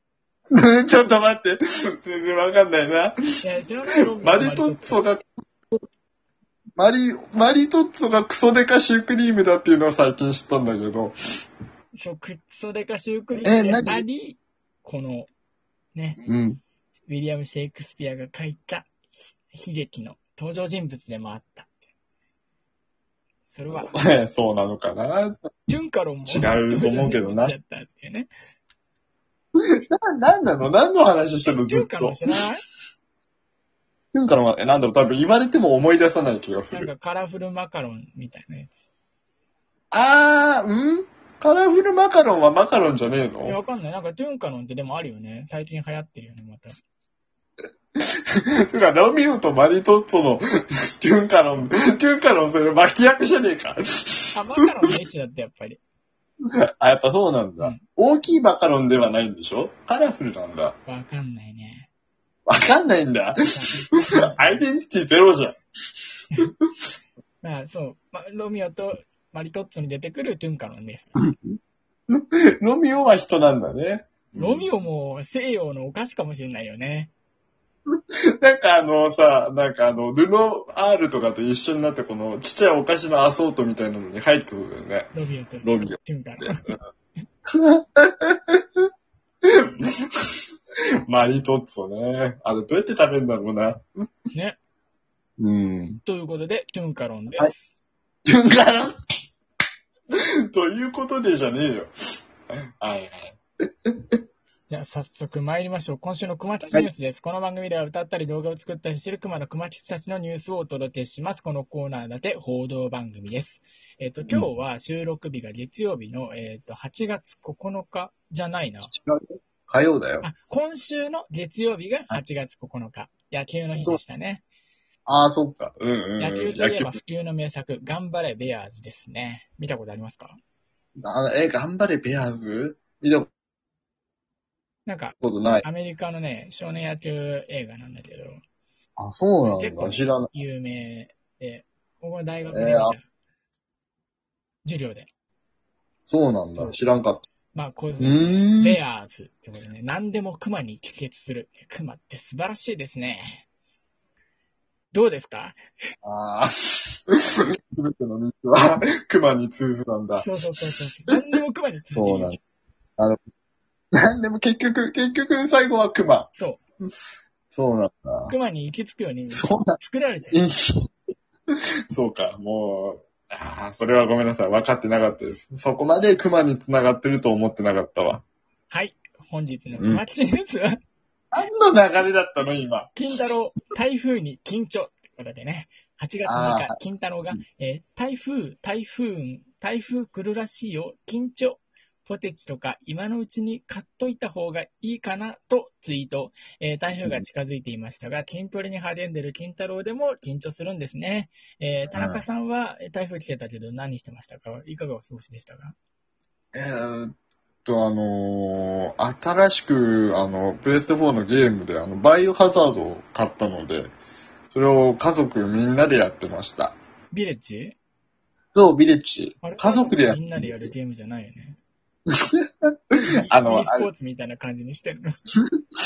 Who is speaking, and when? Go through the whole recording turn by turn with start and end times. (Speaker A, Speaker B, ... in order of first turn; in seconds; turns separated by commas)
Speaker A: 0.5-3.1, Speaker B: 3.4-5.1, Speaker A: 4.2-5.7, Speaker A: 6.8-11.1, Speaker B: 11.9-15.3, Speaker A: 13.4-14.0, Speaker B: 15.9-16.2, Speaker A: 16.2-16.6, Speaker B: 17.1-21.8, Speaker B: 23.5-23.9, Speaker A: 23.6-25.4, Speaker B: 25.7-28.3, Speaker A: 26.2-27.5, Speaker A: 29.9-32.2, Speaker B: 31.5-32.6, Speaker A: 34.1-36.9, Speaker B: 36.7-38.8, Speaker A: 39.9-43.6, Speaker B: 43.4-46.7, Speaker A: 48.7-50.4, Speaker A: 51.0-54.2, Speaker B: 54.3-55.8, Speaker A: 56.6-60.8, Speaker B: 60.9-61.9, Speaker A: 62.5-65.6, Speaker B: 63.4-64.7, Speaker B: 67.4-71.1, Speaker A: 71.2-71.6, Speaker A: 72.1-74.7, Speaker B: 74.4-77.1, Speaker A: 78.0-85.1, Speaker B: 85.1-86.6, Speaker A: 85.6-86.0, Speaker A: 87.5-88.8, Speaker A: 89.5-90.1, Speaker A: 91.1-93.8, Speaker B: 94.3-94.6, Speaker A: 95.4-96.0, Speaker B: 96.0-97.7, Speaker A: 98.3-99.0, Speaker A: 100.5-101.9, Speaker A: 102.8-103.9, Speaker B: 104.7-118.9, Speaker A: 118.9-120.3, Speaker B: 120.2-124.4, Speaker A: 125.0-127.0, Speaker B: 126.2-130.4, Speaker A: 131.0-133.3, Speaker B: 134.8-138.4, Speaker A: 135.2-135.6, Speaker A: 139.0-140.3, Speaker B: 139.4-143.1, Speaker A: 142.5-142.9, Speaker B: 144.6-145.1, Speaker A: 146.1-147.2, Speaker B: 146.5-147.0, Speaker B: 147.5-153.4, Speaker A: 148.0-148.8, Speaker B: 154.9-155.6, Speaker A: 156.0-160.2, Speaker B: 160.2-162.4, Speaker A: 161.9-162.4, Speaker A: 164.0-166.3, Speaker B: 166.3-166.6, Speaker A: 167.5-168.3, Speaker B: 168.3-170.4, Speaker A: 169.3-169.8, Speaker A: 170.3-170.8, Speaker A: 171.9-178.2, Speaker B: 178.7-180.8, Speaker A: 179.8-180.0, Speaker A: 181.3-182.9, Speaker B: 182.9-205.7, Speaker A: 186.2-186.8, Speaker A: 201.9-202.2, Speaker A: 206.5-207.1, Speaker A: 207.6-213.9, Speaker A: 214.5-216.7, Speaker B: 217.1-217.8, Speaker A: 218.5-220.7, Speaker B: 219.4-221.6, Speaker A: 222.1-222.5, Speaker B: 223.0-225.1, Speaker A: 223.3-223.9, Speaker A: 225.3-225.6